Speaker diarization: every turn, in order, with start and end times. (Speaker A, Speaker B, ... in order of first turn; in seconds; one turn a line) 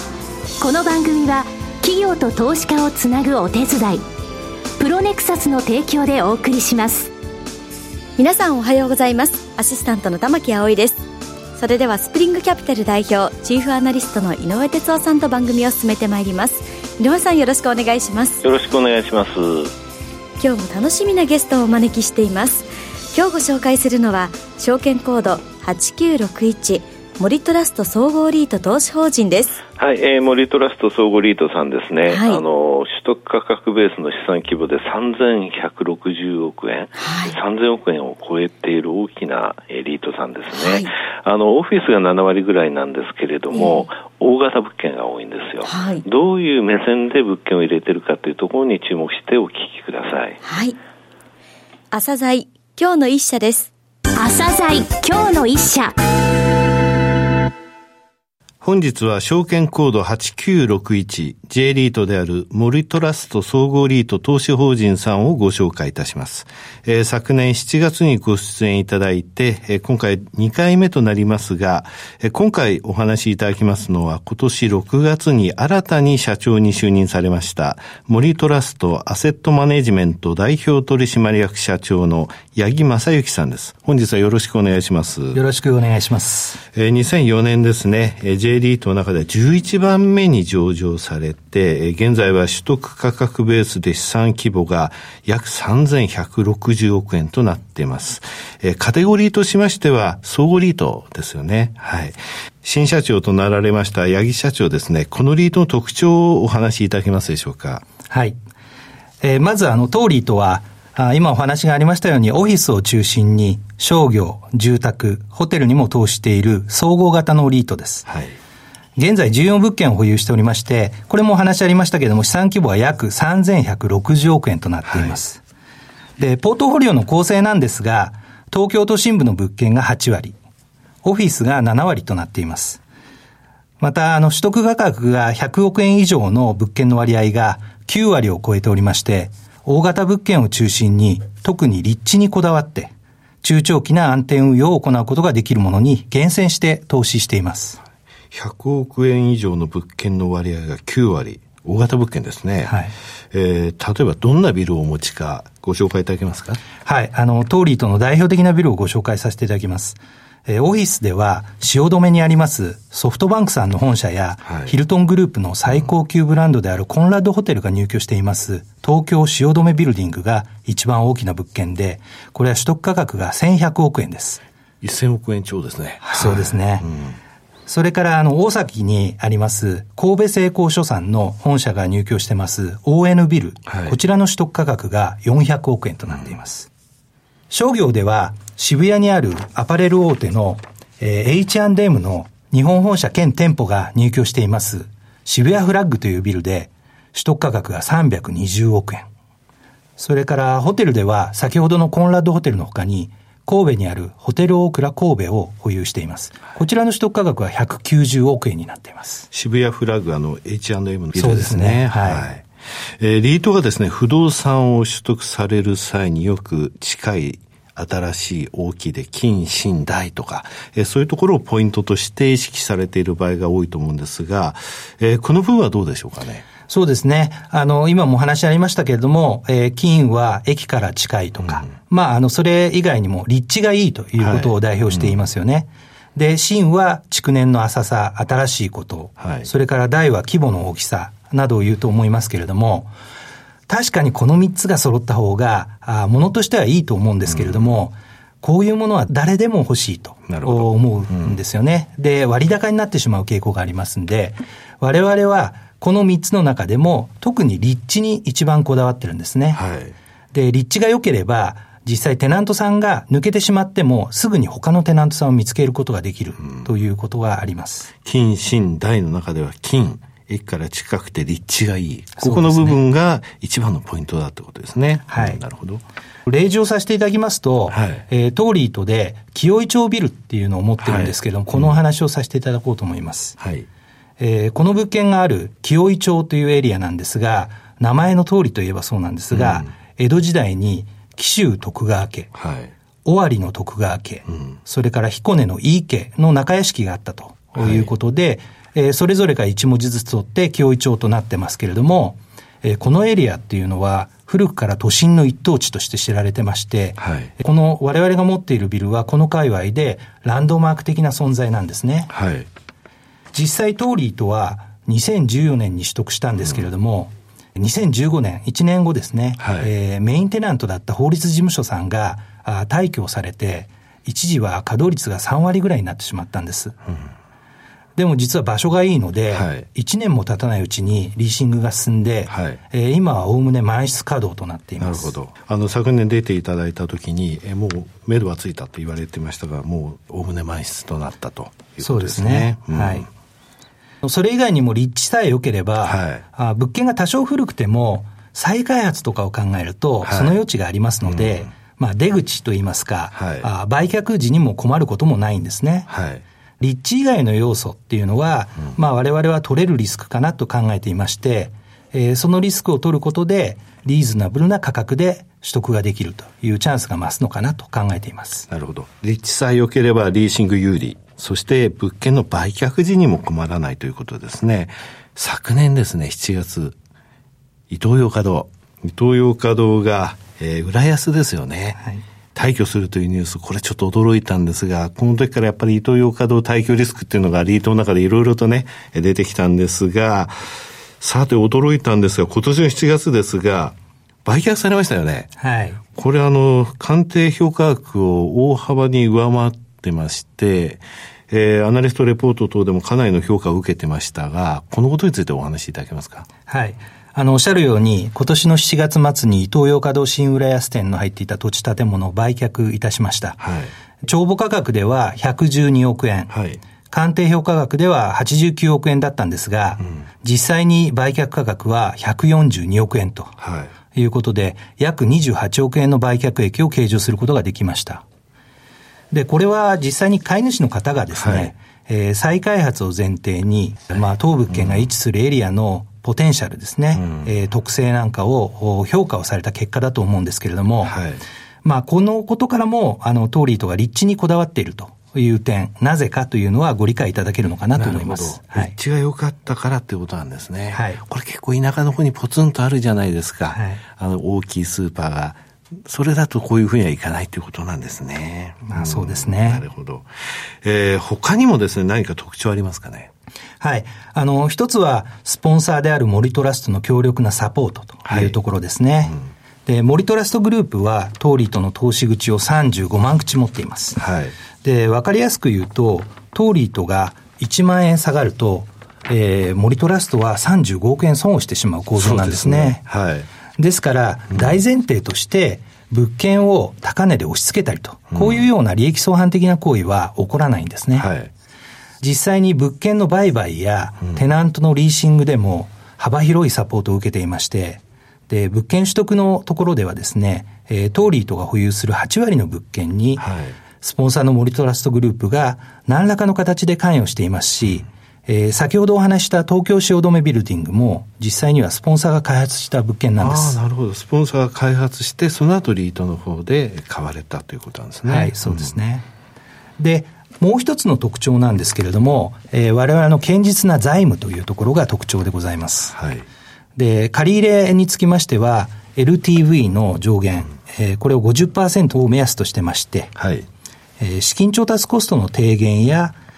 Speaker A: 0.6-4.0
Speaker A: 4.8-7.1
Speaker B: 8.2-11.0
Speaker B: 11.6-18.4
Speaker C: 18.4-19.7
Speaker B: 20.4-29.6
Speaker C: 29.8-50.4
Speaker B: 32.1-32.4
Speaker B: 37.0-37.4
Speaker B: 40.5-40.9
Speaker B: 43.5-43.9
Speaker B: 45.6-46.0
Speaker B: 50.4-50.8
Speaker B: 51.9-53.7
Speaker A: 54.2-56.0
Speaker D: 58.6-85.4
Speaker E: 85.3-86.6
Speaker D: 86.7-107.8
Speaker E: 108.1-108.4
Speaker E: 109.2-118.1
Speaker D: 118.1-118.4
Speaker E: 119.0-125.4
Speaker D: 124.9-125.2
Speaker E: 126.2-130.4
Speaker E: 131.0-132.8
Speaker E: 133.8-147.8
Speaker D: 148.3-152.7
Speaker E: 152.7-152.9
Speaker D: 153.3-156.6
Speaker E: 156.8-174.4
Speaker D: 164.4-164.8
Speaker D: 174.8-177.2
Speaker E: 176.0-176.9
Speaker E: 177.7-186.7
Speaker D: 183.7-184.0
Speaker E: 187.5-199.1
Speaker E: 200.0-209.3
Speaker D: 209.3-212.4
Speaker E: 211.2-212.3
Speaker D: 213.0-226.4
Speaker E: 226.7-242.9
Speaker D: 234.2-235.2
Speaker D: 239.2-239.5
Speaker E: 243.7-259.6
Speaker D: 247.3-247.7
Speaker D: 250.3-251.4
Speaker D: 259.5-259.9
Speaker E: 260.3-267.9
Speaker D: 268.0-275.8
Speaker E: 272.2-272.8
Speaker E: 275.1-275.4
Speaker E: 276.3-283.4
Speaker D: 277.7-278.1
Speaker D: 280.8-281.8
Speaker D: 283.4-283.7
Speaker E: 284.2-292.3
Speaker D: 289.3-289.7
Speaker D: 292.4-292.7
Speaker E: 293.1-312.1
Speaker D: 297.6-297.9
Speaker D: 307.0-307.3
Speaker D: 312.1-312.5
Speaker E: 313.3-326.8
Speaker D: 319.4-319.7
Speaker E: 328.0-335.1
Speaker D: 329.3-329.7
Speaker D: 332.3-332.6
Speaker D: 334.8-343.1
Speaker E: 341.8-343.1
Speaker E: 344.0-355.9
Speaker D: 345.8-346.2
Speaker D: 350.0-350.4
Speaker D: 351.0-351.5
Speaker D: 353.1-353.5
Speaker D: 355.9-356.2
Speaker E: 356.6-368.5
Speaker D: 368.5-376.8
Speaker D: 377.7-381.8
Speaker D: 382.4-393.8
Speaker D: 394.3-395.3
Speaker E: 395.4-395.8
Speaker D: 395.9-406.3
Speaker E: 406.5-413.4
Speaker D: 413.4-413.7
Speaker E: 414.0-416.3
Speaker D: 416.3-416.6
Speaker E: 416.9-423.4
Speaker D: 423.4-423.7
Speaker E: 423.9-428.0
Speaker E: 429.1-440.9
Speaker D: 431.2-431.5
Speaker D: 434.5-434.9
Speaker D: 437.0-437.3
Speaker D: 440.8-441.2
Speaker E: 441.6-448.7
Speaker D: 447.8-460.1
Speaker E: 450.7-451.0
Speaker E: 453.5-453.8
Speaker E: 458.6-459.6
Speaker D: 460.6-463.1
Speaker E: 463.6-474.0
Speaker D: 468.1-468.4
Speaker D: 474.0-474.4
Speaker E: 474.6-482.8
Speaker D: 482.0-483.3
Speaker E: 483.6-491.1
Speaker D: 488.1-488.5
Speaker D: 491.0-491.3
Speaker E: 492.0-503.2
Speaker D: 503.2-503.6
Speaker E: 503.8-513.6
Speaker D: 513.2-518.7
Speaker E: 518.0-519.1
Speaker E: 519.8-526.0
Speaker D: 526.0-526.3
Speaker E: 526.8-533.1
Speaker D: 533.2-533.5
Speaker E: 534.0-536.2